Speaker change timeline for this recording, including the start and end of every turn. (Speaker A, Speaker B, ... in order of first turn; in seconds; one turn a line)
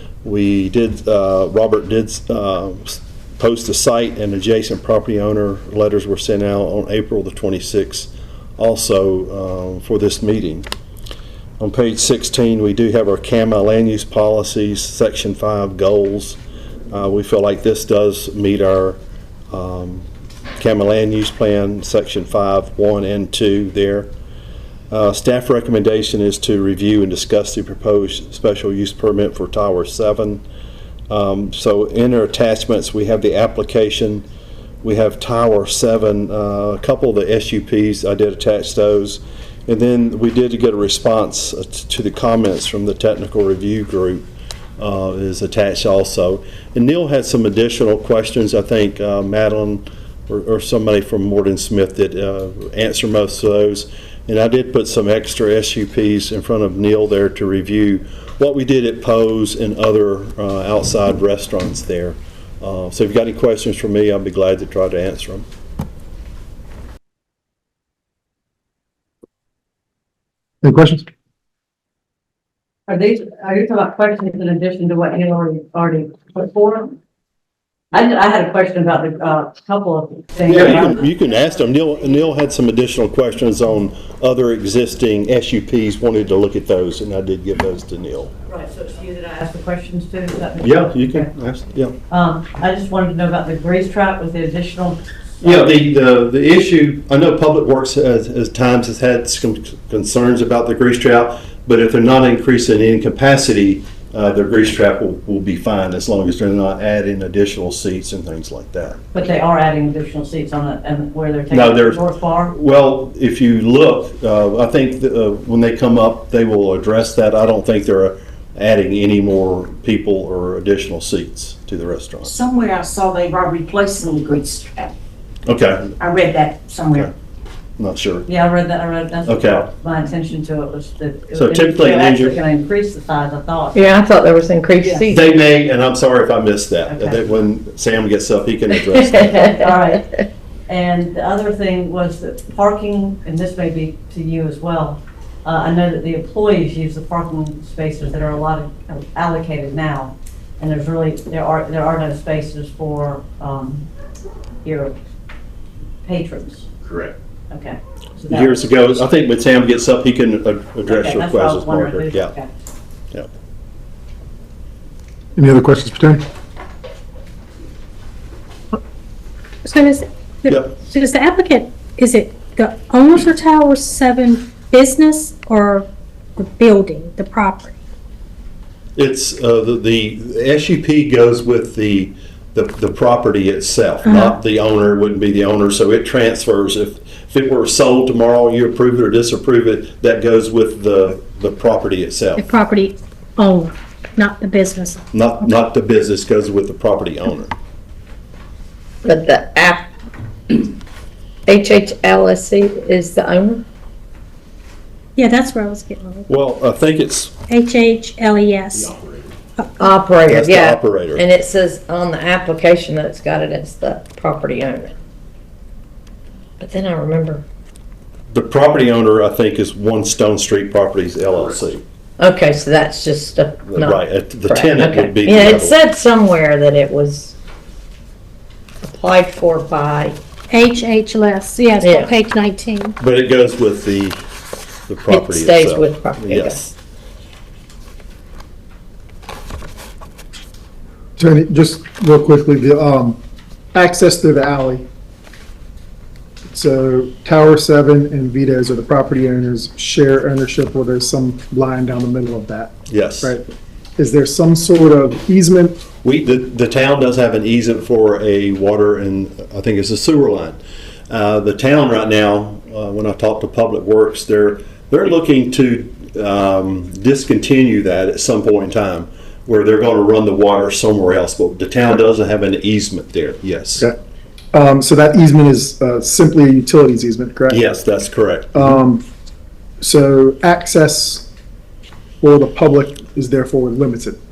Speaker A: 0.2-10.7
Speaker A: 11.6-16.4
Speaker A: 16.9-19.0
Speaker A: 19.5-20.1
Speaker A: 20.6-24.1
Speaker A: 24.9-30.4
Speaker A: 31.1-34.2
Speaker A: 34.8-44.2
Speaker A: 44.8-65.5
Speaker B: 70.6-71.0
Speaker C: 72.9-77.0
Speaker C: 77.9-81.0
Speaker A: 80.5-88.3
Speaker C: 88.5-91.3
Speaker A: 90.6-91.9
Speaker C: 92.1-95.8
Speaker A: 95.4-109.0
Speaker C: 109.1-112.6
Speaker A: 111.5-122.3
Speaker D: 122.2-124.9
Speaker A: 125.5-125.9
Speaker D: 126.0-127.1
Speaker A: 127.8-128.2
Speaker C: 128.2-133.8
Speaker A: 129.2-129.7
Speaker A: 131.3-132.4
Speaker E: 133.7-135.3
Speaker A: 135.1-139.5
Speaker C: 136.9-137.2
Speaker E: 138.9-139.7
Speaker C: 139.1-153.9
Speaker C: 154.6-155.0
Speaker C: 156.0-156.7
Speaker C: 157.5-159.1
Speaker A: 158.3-162.3
Speaker C: 160.8-162.5
Speaker B: 165.3-166.2
Speaker F: 169.6-177.8
Speaker A: 170.5-170.7
Speaker A: 178.9-192.5
Speaker F: 184.0-184.4
Speaker F: 192.3-195.5
Speaker A: 195.1-197.5
Speaker E: 199.0-199.9
Speaker E: 201.4-203.6
Speaker F: 205.2-206.3
Speaker A: 206.3-207.3
Speaker F: 207.5-208.9
Speaker E: 209.8-214.9
Speaker A: 210.2-211.2
Speaker E: 216.6-217.4
Speaker A: 218.3-221.8
Speaker E: 222.2-227.3
Speaker A: 223.7-225.8
Speaker E: 228.8-230.2
Speaker F: 230.5-232.9
Speaker E: 231.8-232.1
Speaker A: 233.0-234.2
Speaker A: 234.9-236.7
Speaker E: 235.1-236.7
Speaker B: 241.2-243.2
Speaker B: 243.7-244.8
Speaker B: 246.5-253.4
Speaker A: 252.9-253.3
Speaker B: 254.0-255.8
Speaker A: 256.0-273.9
Speaker B: 274.5-277.6
Speaker A: 277.5-278.6
Speaker B: 278.5-279.0
Speaker B: 279.8-281.3
Speaker B: 282.2-284.2